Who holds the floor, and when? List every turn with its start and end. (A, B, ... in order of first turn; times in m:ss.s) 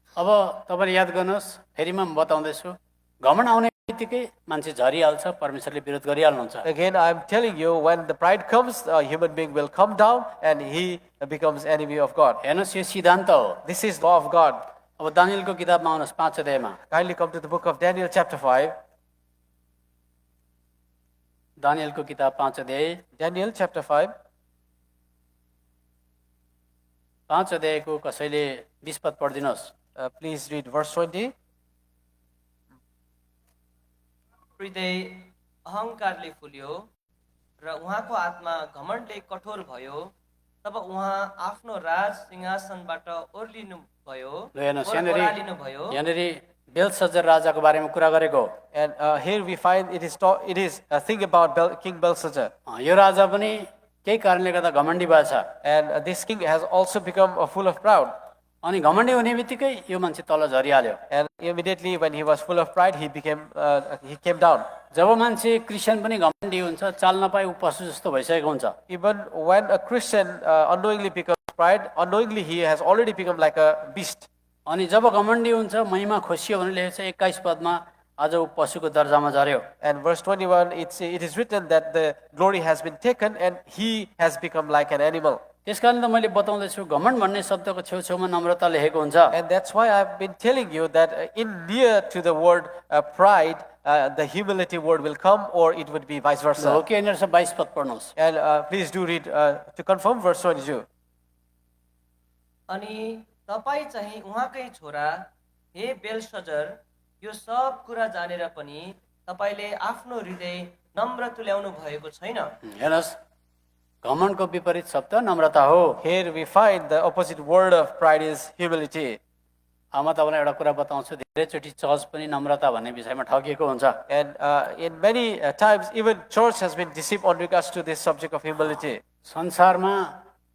0:00.2-0:06.7 A
0:06.6-0:12.4 B
0:12.4-0:13.6 A
0:13.6-0:14.6 B
0:15.0-0:16.8 A
0:16.9-0:18.8 B
0:21.6-0:23.0 A
0:23.2-0:24.1 B
0:27.3-0:29.7 A
0:30.0-0:31.3 B
0:34.6-0:36.9 C
0:37.6-0:40.1 C
0:40.6-0:46.0 C
0:44.6-0:45.4 A
0:45.9-0:48.5 A
0:48.7-0:52.5 B
0:52.7-0:55.5 A
0:55.6-0:58.2 B
0:58.6-1:01.0 A
1:01.1-1:04.7 B
1:04.9-1:08.8 A
1:08.9-1:14.3 B
1:14.7-1:19.6 A
1:19.8-1:25.4 B
1:25.7-1:29.4 A
1:29.3-1:36.8 B
1:36.6-1:38.1 A
1:38.2-1:40.8 B
1:42.7-1:52.5 C
1:52.6-1:53.2 A
1:54.0-1:56.0 A
1:56.0-1:59.2 B
2:00.0-2:04.0 A
2:04.1-2:09.0 B
2:09.3-2:10.1 A